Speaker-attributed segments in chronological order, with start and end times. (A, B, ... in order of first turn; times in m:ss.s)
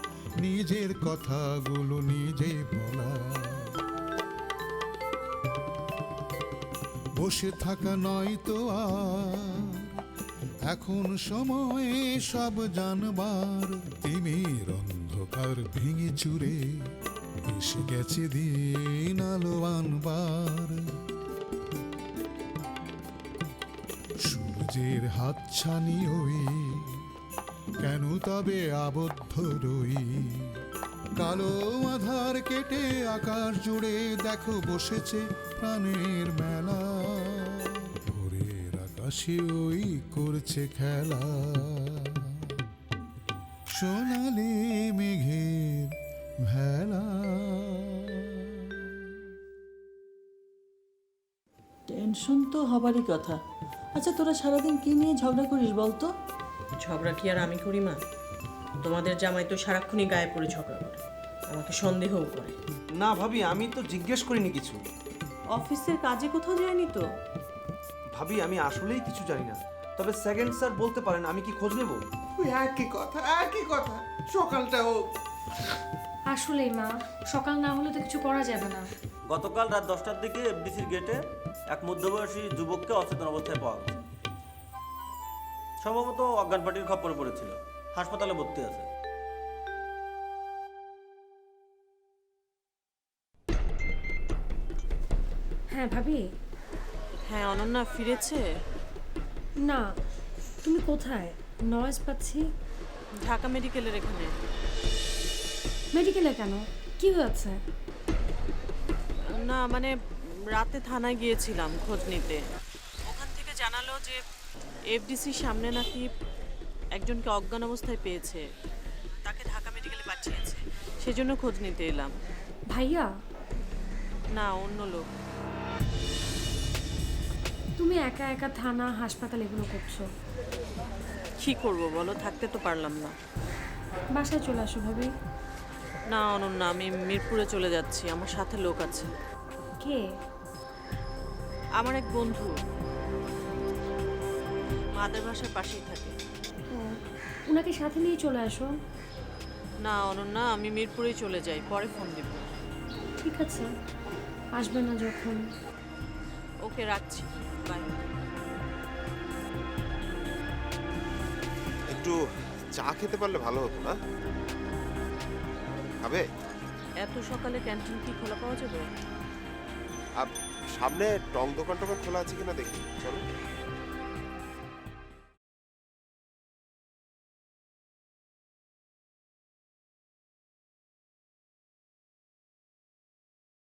0:00.4-0:03.7 A
0:07.2-0:09.5 A
0:10.7-0:16.6 A
0:17.5-0:20.8 A
0:24.3-0:26.8 A
0:27.8-0:30.4 A
0:31.2-0:42.1 A
0:43.8-0:45.9 A
0:46.5-0:48.0 A
0:51.9-0:53.4 B
0:54.0-0:56.1 B
0:56.8-0:58.0 C
0:58.8-1:02.6 C
1:03.0-1:04.8 D
1:05.6-1:07.0 C
1:08.2-1:12.0 D
1:12.4-1:15.0 E
1:16.3-1:18.9 F
1:19.4-1:21.1 G
1:21.8-1:23.8 G
1:26.3-1:27.4 G
1:35.7-1:36.2 F
1:37.3-1:38.4 C
1:40.6-1:42.4 F
1:43.2-1:44.3 C
1:46.0-1:47.6 F
1:49.4-1:49.9 C
1:50.6-1:52.4 C
1:53.1-1:54.2 C
1:54.9-1:56.1 C
1:57.0-1:58.4 C
1:59.2-2:02.1 C
2:02.7-2:03.0 F
2:04.4-2:05.1 C
2:07.8-2:10.0 F
2:11.4-2:13.1 C
2:14.1-2:15.1 F
2:16.1-2:19.1 C
2:21.8-2:22.5 C
2:25.0-2:26.1 C
2:26.7-2:27.0 F
2:27.5-2:28.7 F
2:29.8-2:32.5 C
2:33.2-2:33.7 F
2:34.6-2:35.4 F
2:36.7-2:38.0 C
2:41.9-2:42.2 H
2:42.7-2:44.0 H
2:47.0-2:48.9 C
2:50.2-2:53.2 H